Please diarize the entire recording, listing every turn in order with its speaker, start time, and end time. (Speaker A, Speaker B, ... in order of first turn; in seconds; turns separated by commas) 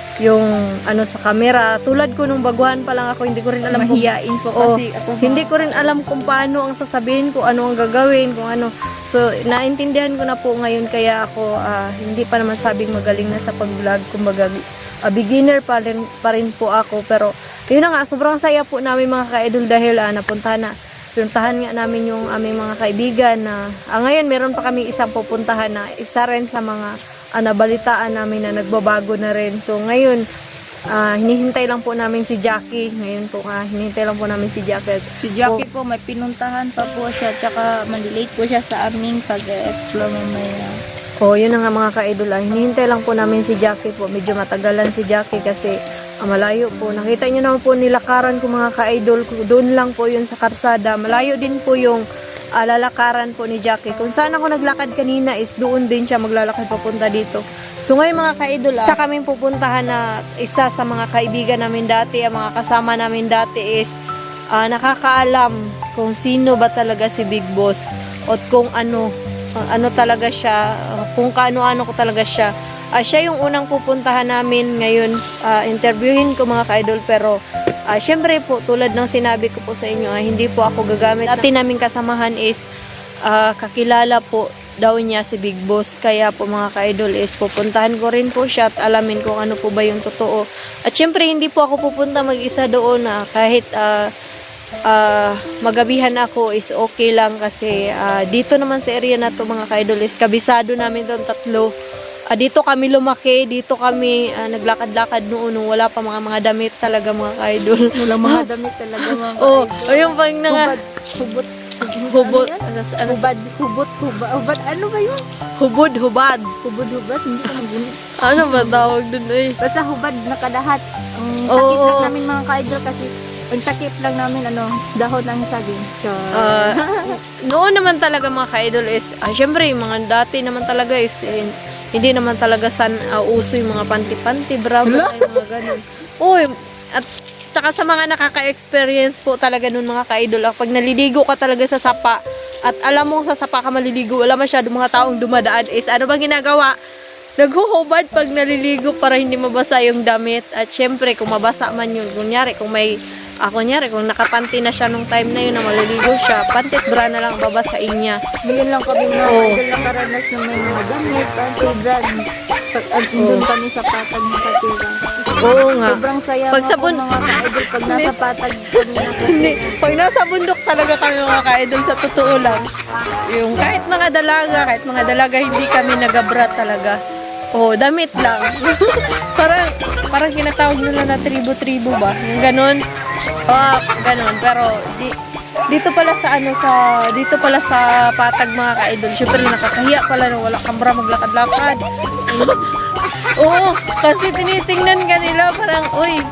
Speaker A: 0.2-30.2, Speaker B: 3.7-6.3, Speaker A: 30.9-35.6, Speaker B: 35.2-40.8, Speaker A: 41.2-52.0, Speaker A: 52.6-63.9, Speaker A: 64.5-69.1, Speaker A: 69.6-77.4, Speaker A: 77.9-82.6, Speaker A: 83.3-94.1, Speaker A: 94.9-101.7, Speaker A: 102.3-108.5, Speaker B: 108.0-115.2, Speaker A: 109.0-110.7, Speaker A: 111.8-113.2, Speaker A: 115.6-116.5, Speaker B: 116.6-118.9, Speaker A: 118.2-119.5, Speaker B: 119.6-127.0, Speaker A: 121.5-122.1, Speaker A: 126.3-126.8, Speaker A: 127.5-146.7, Speaker B: 134.8-135.4, Speaker A: 147.4-152.9, Speaker A: 153.4-158.2, Speaker B: 158.5-162.2, Speaker A: 159.2-159.6, Speaker B: 162.7-169.8, Speaker A: 163.2-163.5, Speaker A: 165.4-166.0, Speaker A: 166.5-168.1, Speaker A: 169.2-172.7, Speaker A: 173.3-177.0, Speaker A: 177.6-182.8, Speaker A: 183.5-185.1, Speaker A: 185.7-192.7, Speaker B: 192.1-192.6, Speaker A: 193.4-196.2